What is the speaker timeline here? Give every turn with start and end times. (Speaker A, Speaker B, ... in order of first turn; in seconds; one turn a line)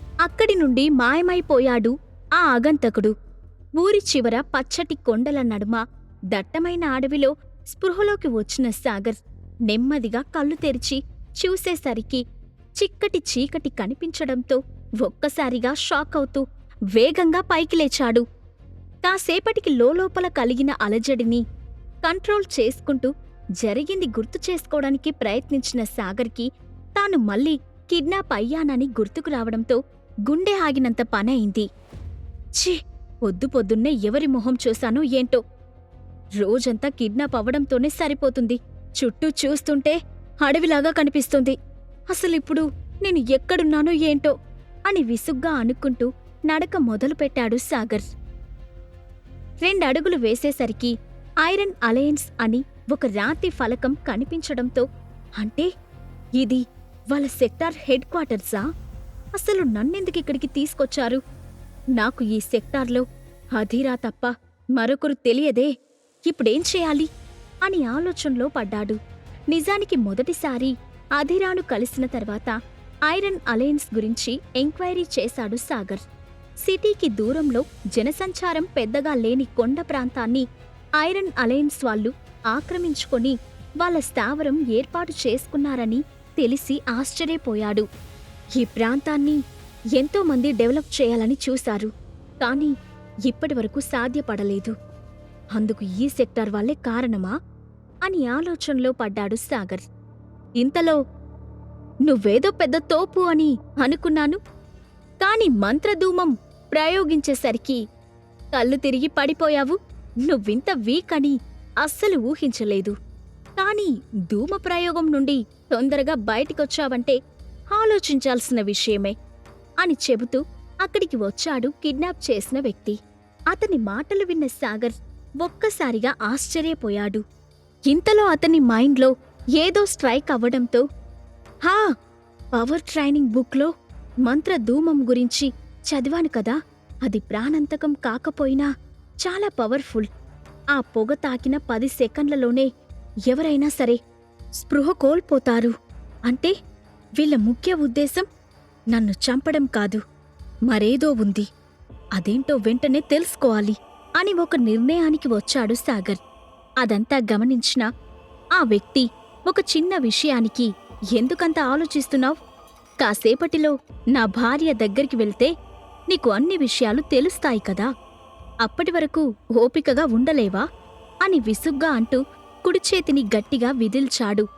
Speaker A: 0.2-3.1
Speaker A: 3.8-12.2
Speaker A: 12.8-16.4
Speaker A: 16.9-18.2
Speaker A: 19.0-21.4
Speaker A: 22.0-31.7
Speaker A: 32.6-35.4
Speaker A: 36.4-41.5
Speaker A: 42.1-44.3
Speaker A: 44.9-48.1
Speaker A: 49.6-54.9
Speaker A: 55.4-55.7
Speaker A: 56.4-58.6
Speaker A: 59.4-61.2
Speaker A: 62.0-63.0
Speaker A: 63.5-65.7
Speaker A: 66.2-67.1
Speaker A: 67.6-69.0
Speaker A: 69.5-72.5
Speaker A: 73.1-76.0
Speaker A: 76.6-80.4
Speaker A: 81.0-87.8
Speaker A: 88.6-89.4
Speaker A: 90.0-91.9
Speaker A: 92.4-92.7
Speaker A: 93.3-94.7
Speaker A: 95.5-97.3
Speaker A: 98.0-99.8
Speaker A: 100.6-101.0
Speaker A: 102.1-104.4
Speaker A: 105.2-107.8
Speaker A: 108.5-112.9
Speaker A: 113.6-117.2
Speaker A: 117.7-119.1
Speaker A: 119.8-123.0
Speaker A: 123.5-127.2
Speaker A: 127.9-130.8
Speaker A: 132.5-133.7
Speaker A: 134.2-138.7
Speaker A: 139.2-140.1
Speaker A: 140.7-142.7
Speaker A: 143.3-144.0
Speaker A: 144.6-145.7
Speaker A: 146.3-146.5
Speaker A: 147.2-148.2
Speaker A: 148.9-150.0
Speaker A: 150.7-151.5
Speaker A: 152.2-156.2
Speaker A: 156.8-157.9
Speaker A: 158.6-162.4
Speaker A: 163.0-165.5
Speaker A: 166.1-167.9
Speaker A: 168.6-170.6
Speaker A: 171.2-174.4